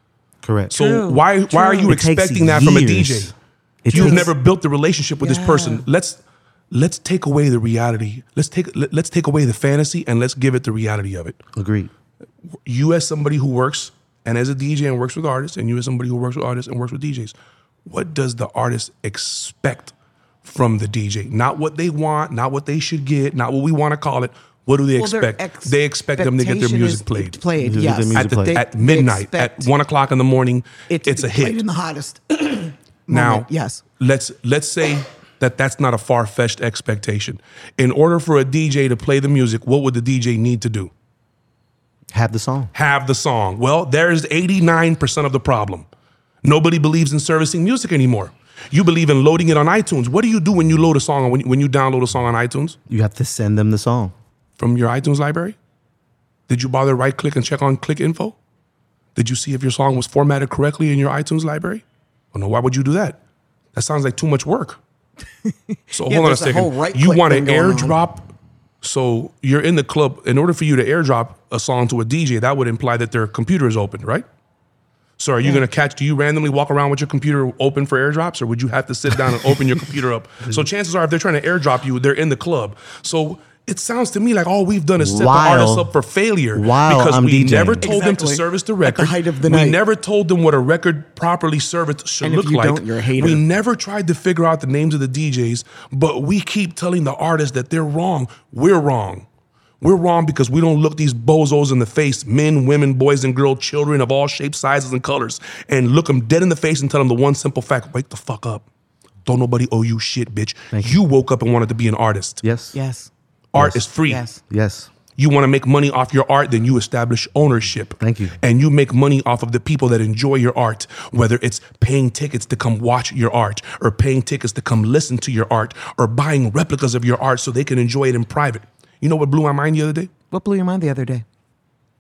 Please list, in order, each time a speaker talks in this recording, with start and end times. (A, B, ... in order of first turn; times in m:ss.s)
0:00.4-0:00.8 A
0:00.7-0:03.3 B
0:00.7-0:01.9 C
0:01.8-0:03.3 A
0:03.8-0:04.3 A
0:03.9-0:06.2 B
0:03.9-0:04.3 C
0:05.2-0:05.8 C
0:06.7-0:11.4 B
0:11.6-0:11.9 A
0:12.7-0:17.4 B
0:17.9-0:27.4 B
0:24.9-0:29.7 C
0:27.6-0:28.6 A
0:28.1-0:31.6 B
0:30.9-0:33.8 C
0:33.1-0:33.5 B
0:34.0-0:40.9 B
0:42.1-0:42.7 A
0:42.7-0:45.9 B
0:46.4-0:52.8 B
0:52.9-0:54.1 A
0:54.6-0:55.6 B
0:56.5-0:58.4 B
0:59.2-1:03.2 B
1:03.7-1:04.8 B
1:05.4-1:08.0 C
1:05.9-1:08.3 B
1:08.8-1:14.2 B
1:15.2-1:39.3 B
1:25.0-1:25.9 A
1:26.5-1:27.9 A
1:27.8-1:29.8 C
1:32.2-1:33.4 C
1:39.8-1:48.6 B
1:49.2-1:52.4 B
1:50.7-1:51.0 A
1:52.4-1:52.8 A
1:52.7-1:53.1 C
1:53.5-1:54.2 B
1:53.6-1:53.9 A
1:54.0-1:54.4 C
1:54.5-1:54.9 A
1:55.2-2:10.1 B
1:58.0-1:58.4 A
2:10.3-2:11.2 C